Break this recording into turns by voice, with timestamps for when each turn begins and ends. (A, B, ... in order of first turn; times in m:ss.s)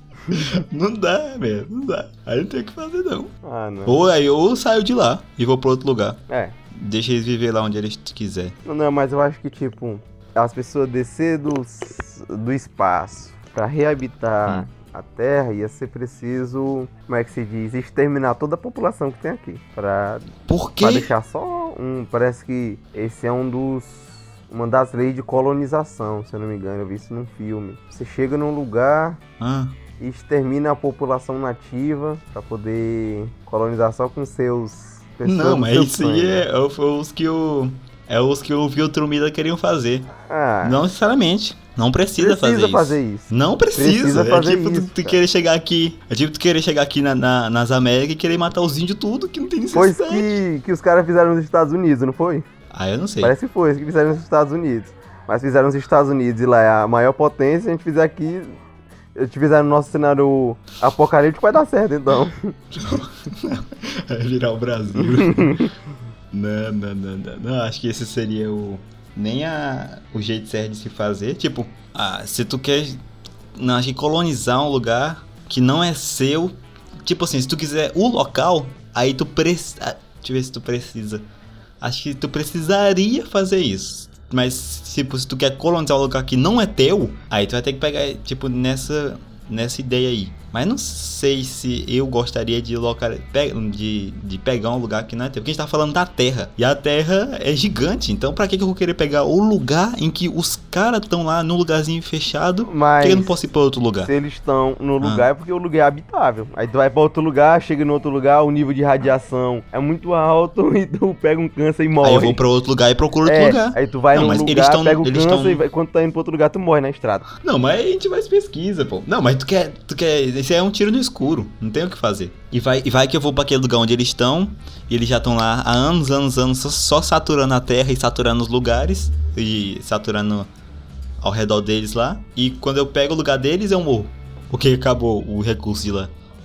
0:00.3-0:03.3 A
0:03.4-0:04.0 B
0:03.8-0:06.2 A
0:06.3-0:06.6 B
0:06.7-0:08.6 A
0:08.6-0:29.2 B
0:20.5-0:21.1 A
0:29.4-0:29.8 A
0:30.0-0:36.4 B
0:35.2-0:40.1 A
0:40.3-0:40.8 B
0:40.6-0:50.4 A
0:42.2-0:45.2 B
0:49.7-0:52.4 B
0:52.7-0:53.3 A
0:53.2-0:58.6 B
0:59.1-1:02.5 B
1:02.7-1:05.7 A
1:05.0-1:05.7 B
1:06.3-1:13.0 A
1:13.5-1:21.2 A
1:21.8-1:44.1 A
1:42.7-1:43.4 B
1:44.0-1:52.4 B
1:52.0-1:55.6 A
1:53.2-1:57.2 B
1:57.4-2:10.5 A
2:11.2-2:16.1 A